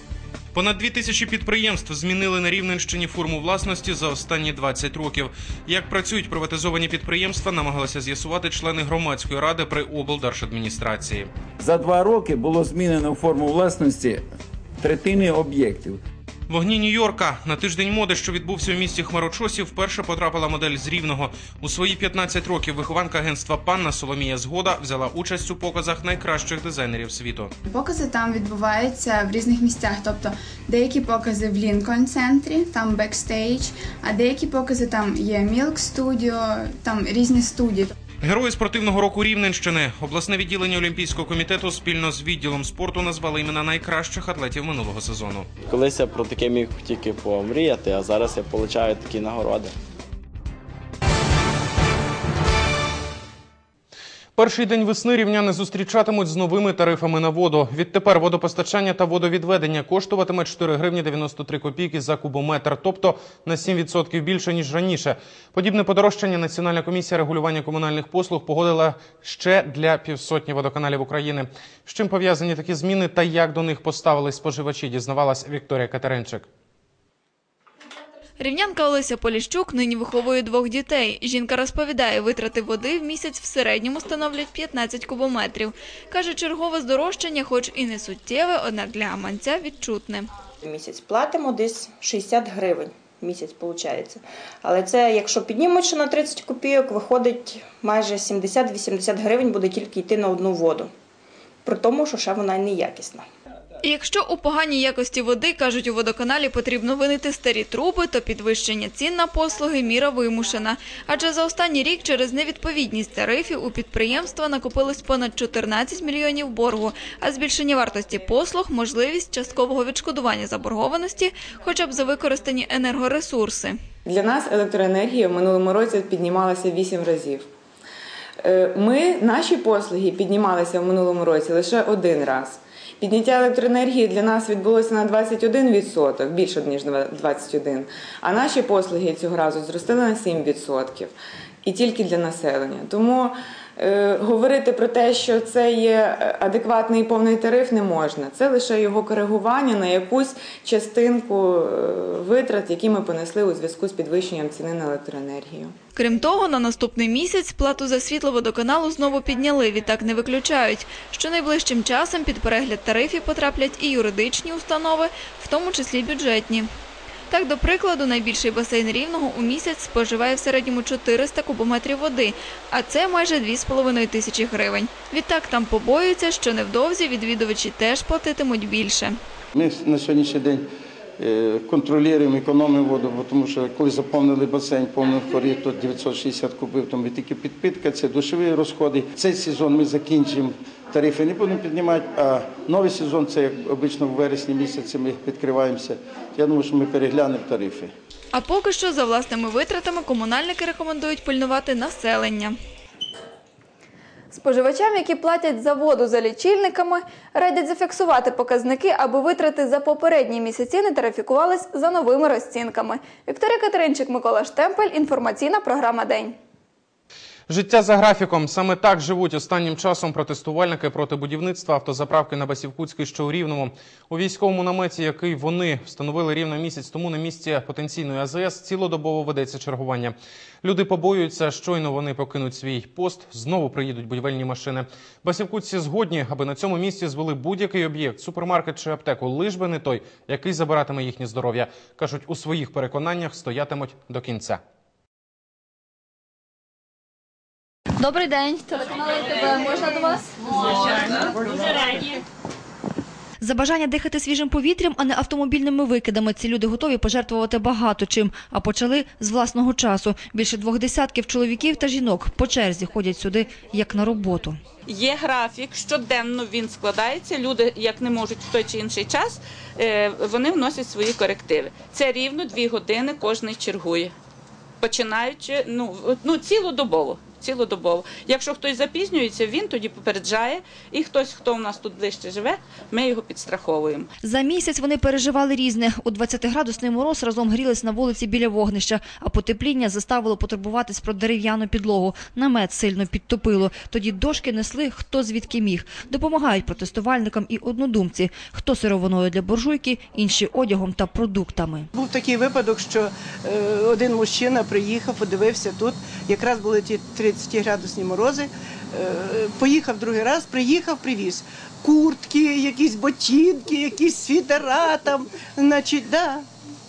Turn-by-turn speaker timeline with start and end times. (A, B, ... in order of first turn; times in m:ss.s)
0:00.5-0:11.3 A
0:11.6-0:14.2 B
0:14.8-0:16.0 B
0:16.5-0:27.5 A
0:27.7-0:37.9 C
0:38.2-0:45.5 A
0:45.7-0:49.7 D
0:54.4-1:16.4 A
1:18.4-1:30.3 E
1:30.6-1:40.9 F
1:41.6-1:43.3 F
1:43.8-2:03.8 E
2:04.0-2:07.5 G
2:08.4-2:21.1 G
2:21.6-2:35.7 G
2:36.0-2:46.7 E
2:47.3-2:59.2 E
2:59.5-3:00.6 H
3:01.2-3:17.9 H
3:18.3-3:22.6 E
3:24.3-3:36.4 I
3:37.5-4:04.6 A
4:08.0-4:12.2 I
4:13.4-4:24.6 J
4:24.8-4:34.1 K
4:34.8-4:44.1 K
4:44.2-5:01.9 J
5:01.9-5:16.4 L